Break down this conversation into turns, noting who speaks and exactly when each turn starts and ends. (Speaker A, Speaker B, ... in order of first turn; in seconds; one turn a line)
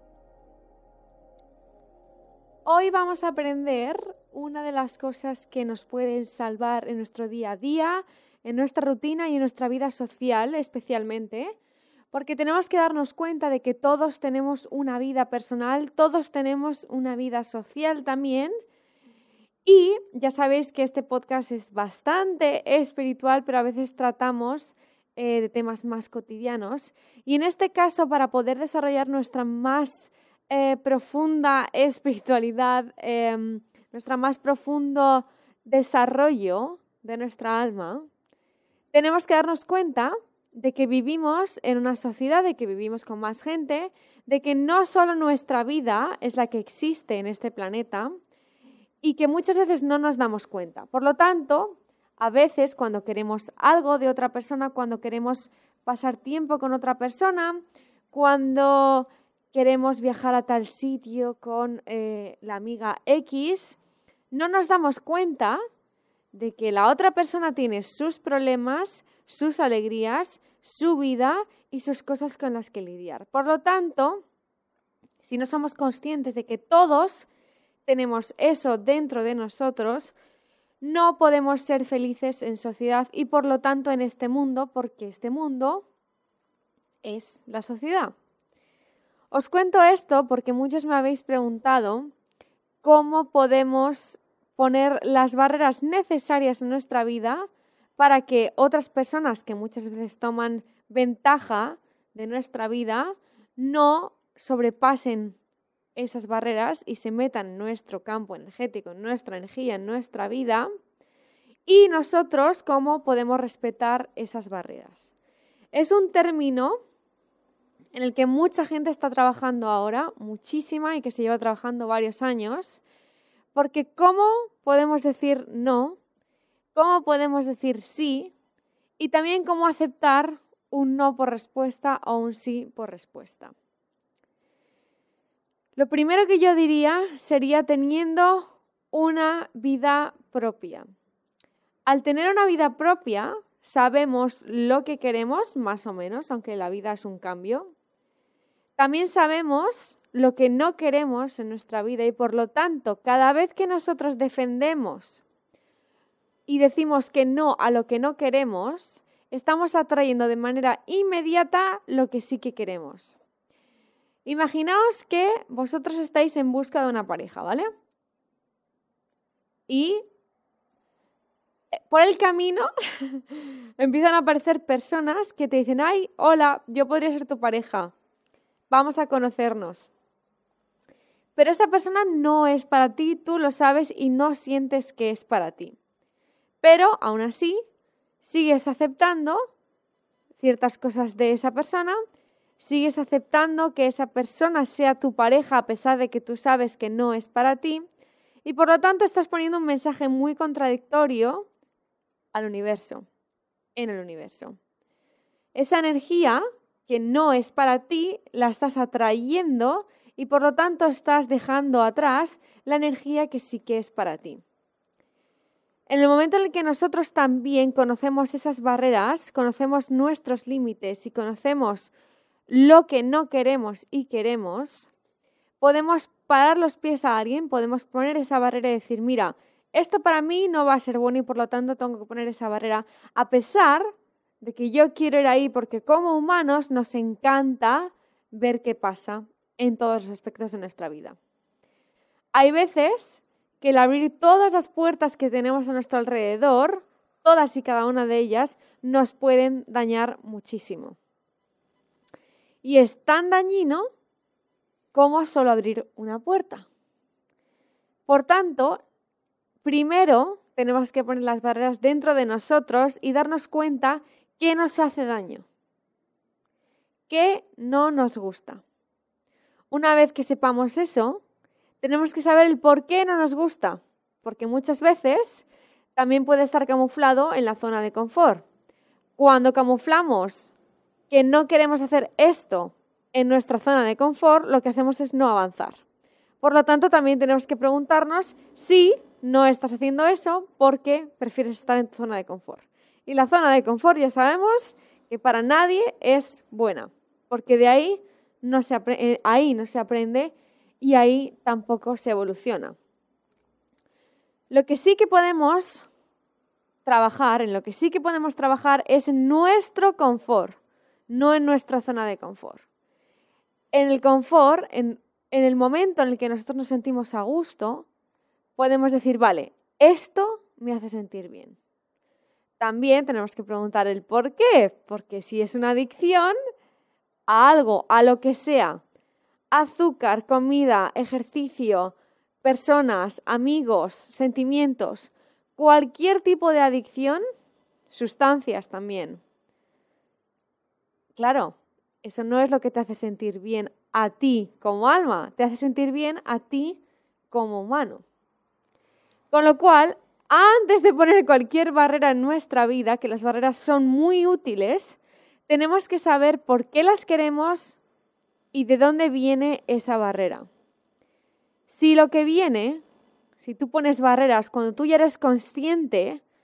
Speaker A: 2.7-11.6
Speaker A: 12.1-18.5
Speaker A: 19.6-38.1
Speaker A: 38.9-48.1
Speaker A: 49.0-57.6
Speaker A: 58.1-63.8
Speaker A: 64.3-65.6
Speaker A: 66.3-74.2
Speaker A: 75.2-77.3
Speaker A: 77.9-80.1
Speaker A: 80.8-85.8
Speaker A: 87.0-88.1
Speaker A: 89.3-92.1
Speaker A: 92.8-105.4
Speaker A: 106.0-110.7
Speaker A: 111.7-115.1
Speaker A: 115.7-116.8
Speaker A: 117.9-122.8
Speaker A: 123.5-126.0
Speaker A: 126.8-128.3
Speaker A: 129.0-133.5
Speaker A: 135.8-140.9
Speaker A: 141.9-147.7
Speaker A: 148.8-155.2
Speaker A: 156.5-163.2
Speaker A: 164.2-167.7
Speaker A: 169.7-170.0
Speaker A: 171.9-177.9
Speaker A: 178.7-179.9
Speaker A: 181.4-185.8
Speaker A: 186.6-187.6
Speaker A: 188.2-189.4
Speaker A: 190.4-192.0
Speaker A: 192.6-197.8
Speaker A: 198.4-201.5
Speaker A: 202.3-203.1
Speaker A: 203.8-204.6
Speaker A: 205.6-214.4
Speaker A: 215.9-221.9
Speaker A: 222.5-224.9
Speaker A: 225.6-233.9
Speaker A: 234.4-241.2
Speaker A: 242.3-251.0
Speaker A: 252.6-253.9
Speaker A: 254.9-256.7
Speaker A: 258.1-258.8
Speaker A: 259.6-265.5
Speaker A: 267.1-268.6
Speaker A: 269.7-271.2
Speaker A: 271.8-278.4
Speaker A: 279.2-280.5
Speaker A: 281.1-285.8
Speaker A: 286.4-302.8
Speaker A: 304.5-305.9
Speaker A: 306.9-312.6
Speaker A: 313.7-317.9
Speaker A: 318.6-321.6
Speaker A: 322.6-326.4
Speaker A: 327.3-328.8
Speaker A: 329.5-337.2
Speaker A: 337.9-339.2
Speaker A: 341.1-346.8
Speaker A: 347.3-348.1
Speaker A: 349.3-357.8
Speaker A: 358.5-360.5
Speaker A: 361.7-362.8
Speaker A: 363.4-366.2